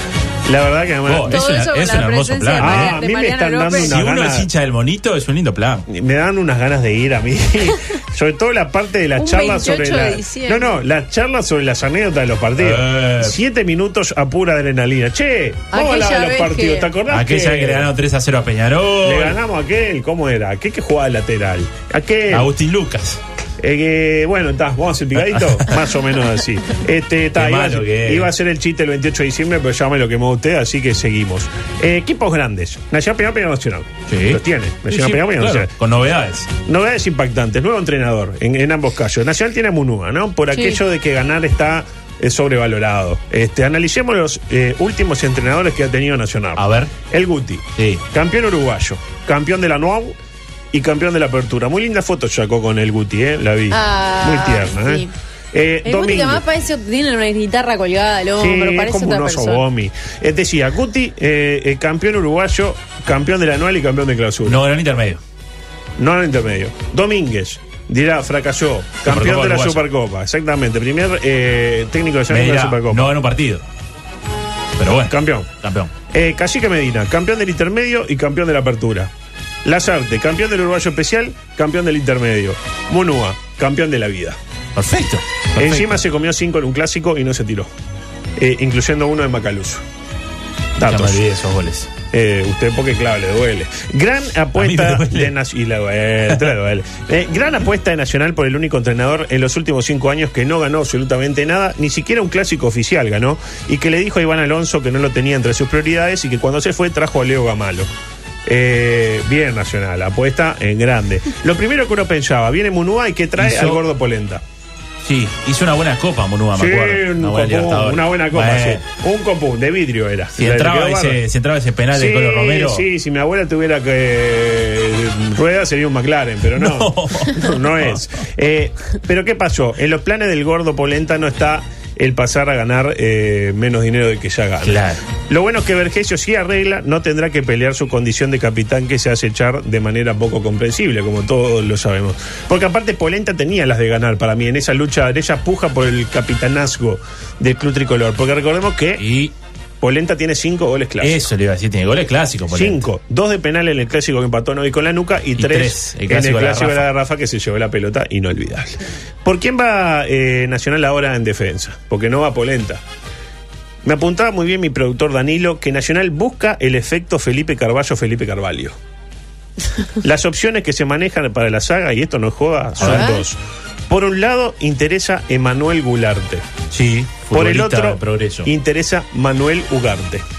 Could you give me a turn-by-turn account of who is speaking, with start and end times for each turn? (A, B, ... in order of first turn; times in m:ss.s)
0:00.4-0:01.5 A
0:01.0-0:03.0 B
0:01.3-0:04.0 C
0:02.6-0:04.5 A
0:03.7-0:05.9 B
0:05.9-0:17.9 A
0:09.2-0:10.7 C
0:12.6-0:13.4 B
0:15.7-0:16.9 C
0:17.1-0:19.4 B
0:19.0-0:22.5 A
0:22.3-0:23.2 B
0:23.6-0:35.7 A
0:27.4-0:28.3 B
0:34.1-0:36.5 B
0:36.6-0:50.2 A
0:40.5-0:40.8 C
0:46.6-0:46.9 B
0:47.8-0:48.0 B
0:50.7-0:56.4 A
0:53.7-0:55.1 C
0:55.8-0:59.6 C
0:58.4-1:04.6 A
1:04.4-1:05.2 B
1:06.0-1:13.1 A
1:09.0-1:09.8 B
1:12.3-1:13.6 B
1:14.8-1:15.9 B
1:15.1-1:15.5 A
1:16.1-1:19.1 A
1:19.6-1:24.4 A
1:24.8-1:26.0 B
1:25.6-1:27.7 A
1:28.4-1:29.8 A
1:30.8-1:31.2 A
1:30.8-1:31.9 B
1:32.1-1:47.9 A
1:34.6-1:35.3 B
1:48.4-1:54.4 A
1:53.4-1:53.8 B
1:55.0-1:58.8 B
1:56.5-2:01.2 A
2:00.4-2:02.8 B
2:01.9-2:29.0 A
2:06.6-2:08.0 B
2:14.6-2:15.0 B
2:29.0-2:29.3 B
2:29.8-2:31.2 A
2:31.0-2:32.8 B
2:32.5-2:42.8 A
2:35.4-2:36.9 B
2:43.8-2:48.8 A
2:50.0-2:53.4 A
2:52.8-2:53.1 B
2:52.8-2:53.2 C
2:53.9-2:56.4 A
2:56.7-2:58.5 B
2:57.3-3:00.2 A